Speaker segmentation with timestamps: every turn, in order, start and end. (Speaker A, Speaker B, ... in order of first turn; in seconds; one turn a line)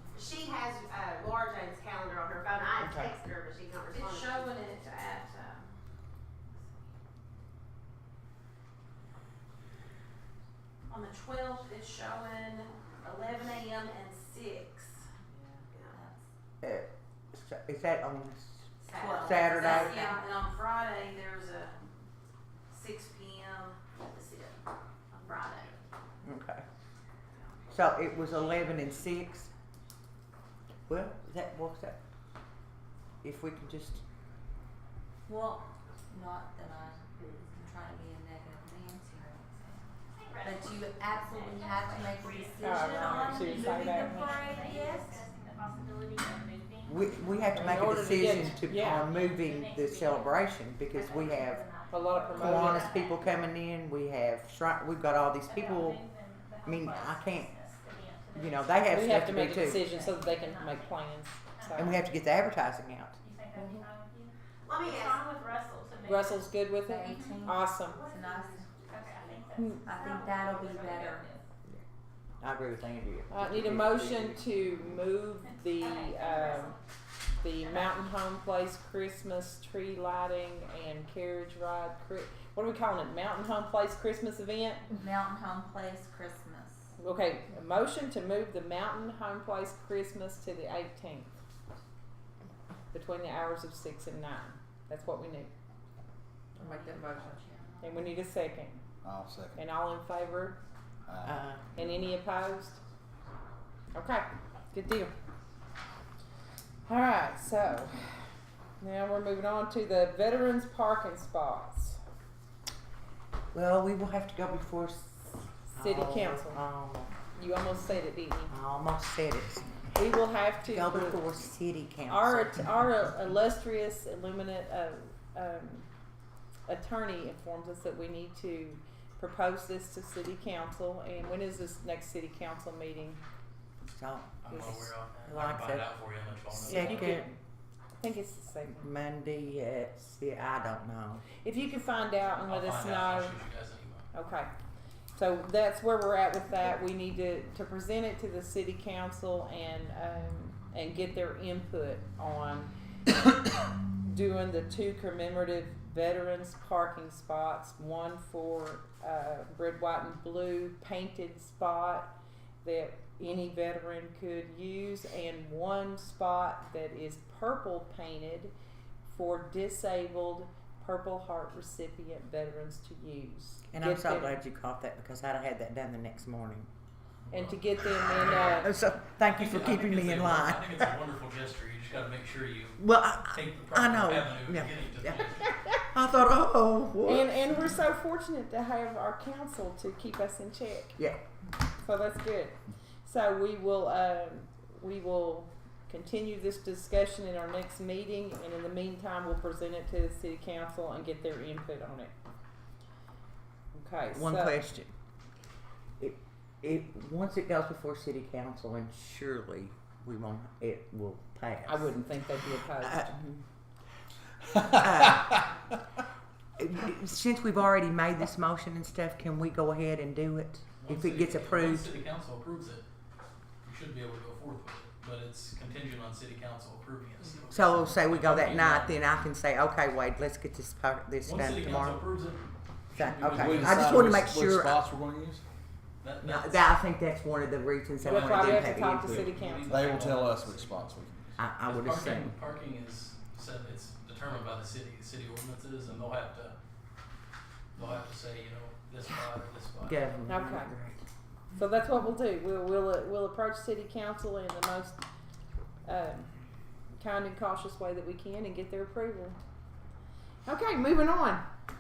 Speaker A: 0.1-5.0
Speaker B: 3.9-5.7
Speaker B: 10.9-15.0
Speaker C: 15.9-16.2
Speaker D: 16.6-20.0
Speaker C: 18.9-20.2
Speaker B: 18.9-21.8
Speaker B: 22.7-24.6
Speaker B: 25.1-25.8
Speaker D: 26.2-26.6
Speaker D: 27.7-29.5
Speaker D: 30.9-32.0
Speaker D: 33.2-34.0
Speaker C: 35.3-39.8
Speaker E: 40.1-53.4
Speaker C: 40.4-45.2
Speaker F: 42.6-44.4
Speaker D: 46.9-51.7
Speaker F: 47.5-49.1
Speaker F: 51.9-53.0
Speaker D: 52.3-56.0
Speaker E: 55.5-61.9
Speaker D: 56.6-57.5
Speaker D: 58.3-59.9
Speaker F: 58.9-62.0
Speaker D: 61.7-63.2
Speaker E: 63.2-67.4
Speaker F: 63.5-63.9
Speaker A: 64.7-65.2
Speaker F: 66.0-68.0
Speaker C: 66.8-68.8
Speaker B: 68.0-69.2
Speaker E: 68.8-71.3
Speaker F: 69.5-69.8
Speaker C: 69.8-71.4
Speaker D: 72.4-74.4
Speaker F: 73.3-76.8
Speaker E: 75.8-76.8
Speaker F: 77.4-84.8
Speaker E: 77.6-78.0
Speaker C: 84.9-86.9
Speaker F: 87.0-91.3
Speaker F: 92.9-95.5
Speaker C: 96.6-98.2
Speaker F: 96.6-98.8
Speaker G: 99.0-99.6
Speaker F: 99.5-100.6
Speaker G: 101.1-101.4
Speaker D: 101.2-101.8
Speaker F: 101.8-102.8
Speaker F: 103.9-105.1
Speaker F: 106.9-108.2
Speaker F: 108.8-112.0
Speaker D: 113.5-117.2
Speaker F: 115.8-116.6
Speaker F: 117.3-118.5
Speaker D: 118.5-119.8
Speaker F: 120.0-121.2
Speaker D: 120.7-122.7
Speaker F: 122.1-125.9
Speaker F: 126.7-133.2
Speaker D: 133.9-135.9
Speaker H: 134.4-137.2
Speaker F: 134.5-134.8
Speaker D: 136.5-137.3
Speaker F: 136.6-137.4
Speaker F: 138.0-138.9
Speaker D: 138.7-141.2
Speaker F: 141.4-143.4
Speaker H: 142.4-144.1
Speaker F: 144.1-144.5
Speaker F: 145.2-152.7
Speaker F: 154.0-168.5
Speaker F: 169.1-174.4
Speaker D: 173.7-176.7
Speaker H: 177.3-177.6
Speaker F: 177.3-178.7
Speaker D: 178.0-180.9
Speaker H: 179.3-185.5
Speaker D: 182.8-187.7
Speaker F: 187.1-191.0
Speaker F: 191.8-202.1
Speaker F: 203.7-204.6
Speaker D: 204.1-204.9
Speaker D: 206.0-212.0
Speaker F: 211.7-213.2
Speaker D: 212.8-213.4
Speaker D: 214.6-215.4
Speaker D: 216.6-222.0
Speaker H: 220.8-222.8
Speaker H: 223.6-229.0
Speaker D: 227.5-232.0
Speaker H: 231.2-234.3
Speaker D: 232.9-234.8
Speaker G: 233.3-235.4
Speaker H: 236.0-236.7
Speaker D: 236.2-239.3
Speaker F: 238.0-240.1
Speaker G: 238.0-241.4
Speaker H: 239.2-241.0
Speaker D: 241.4-242.3
Speaker H: 241.7-246.6
Speaker H: 247.8-250.0
Speaker D: 249.8-251.0
Speaker F: 250.3-250.7
Speaker F: 251.6-255.0
Speaker F: 255.8-256.3
Speaker F: 257.0-259.4
Speaker F: 260.5-261.4